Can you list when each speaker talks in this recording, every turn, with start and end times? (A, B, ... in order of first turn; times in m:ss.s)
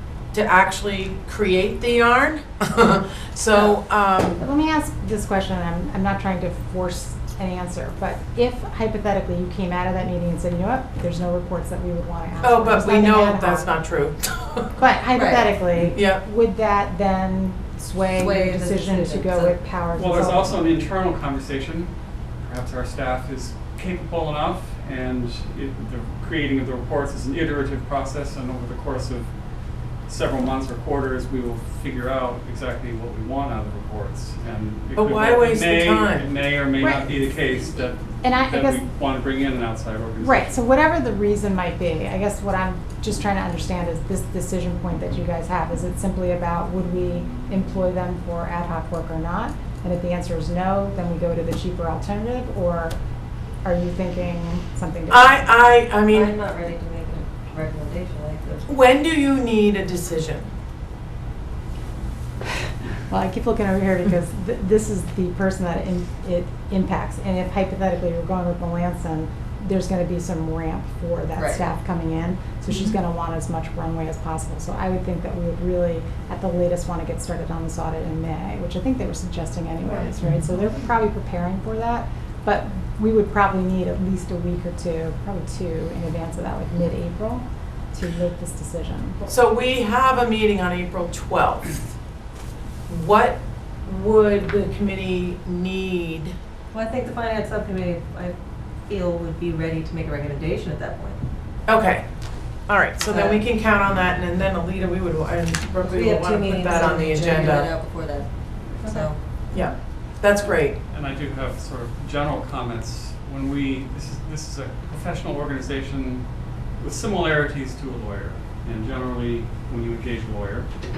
0:00.3-0:04.4 A
0:04.4-0:13.7 B
0:12.4-0:14.7 A
0:14.8-0:20.8 B
0:15.1-0:15.5 C
0:15.9-0:16.2 A
0:18.2-0:19.6 C
0:20.0-0:29.3 D
0:30.0-0:40.6 D
0:35.0-0:36.3 A
0:36.8-0:37.2 B
0:38.2-0:38.8 B
0:40.2-0:53.0 B
0:53.6-0:55.5 B
0:55.1-0:56.3 A
0:56.1-0:58.7 C
0:58.7-1:00.5 A
1:03.1-1:29.3 B
1:11.4-1:11.6 C
1:29.3-1:31.8 A
1:32.9-1:36.3 A
1:36.7-1:41.2 C
1:41.7-1:42.0 A
1:42.7-1:47.7 A
1:43.0-1:43.4 C
1:45.8-1:49.2 C
1:48.6-1:49.4 D
1:49.5-1:50.8 A
1:50.4-2:00.7 D